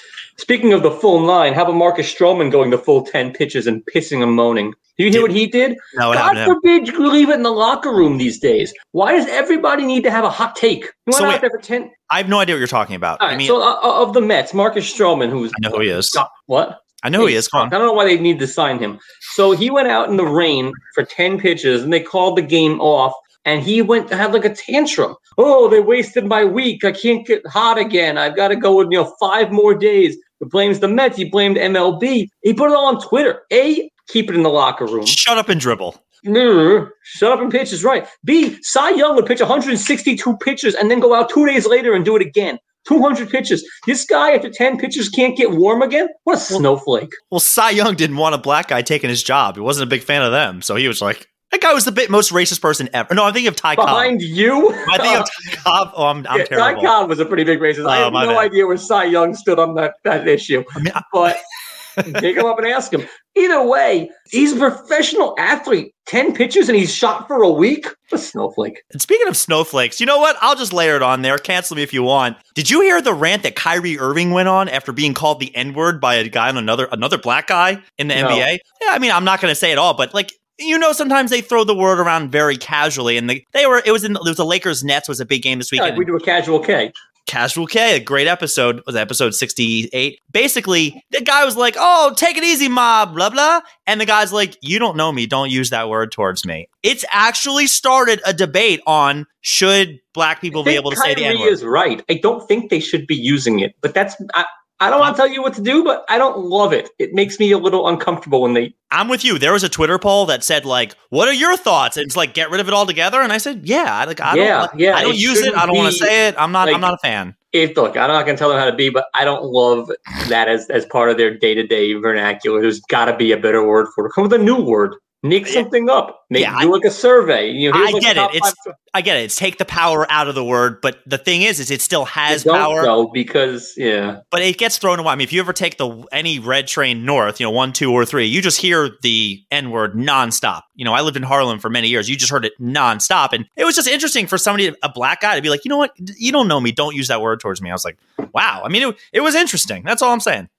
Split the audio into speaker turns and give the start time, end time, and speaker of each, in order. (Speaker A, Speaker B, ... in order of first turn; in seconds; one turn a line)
Speaker A: 0.4-11.9
Speaker B: 5.9-6.5
Speaker B: 11.1-11.4
Speaker B: 12.1-13.6
Speaker A: 13.2-35.2
Speaker B: 15.5-16.2
Speaker B: 17.0-17.7
Speaker B: 35.0-36.0
Speaker A: 36.2-47.2
Speaker B: 47.3-54.1
Speaker A: 53.8-55.3
Speaker B: 54.8-56.9
Speaker A: 56.3-61.4
Speaker B: 57.8-58.5
Speaker B: 60.8-61.0
Speaker A: 62.0-68.8
Speaker B: 68.9-86.0
Speaker A: 78.1-78.5
Speaker A: 85.8-86.9
Speaker B: 87.2-101.5
Speaker A: 100.5-108.7
Speaker B: 108.9-117.3
Speaker A: 114.2-116.9
Speaker A: 117.5-128.7
Speaker B: 126.3-126.7
Speaker B: 127.7-132.9
Speaker A: 132.3-134.2
Speaker B: 134.3-150.5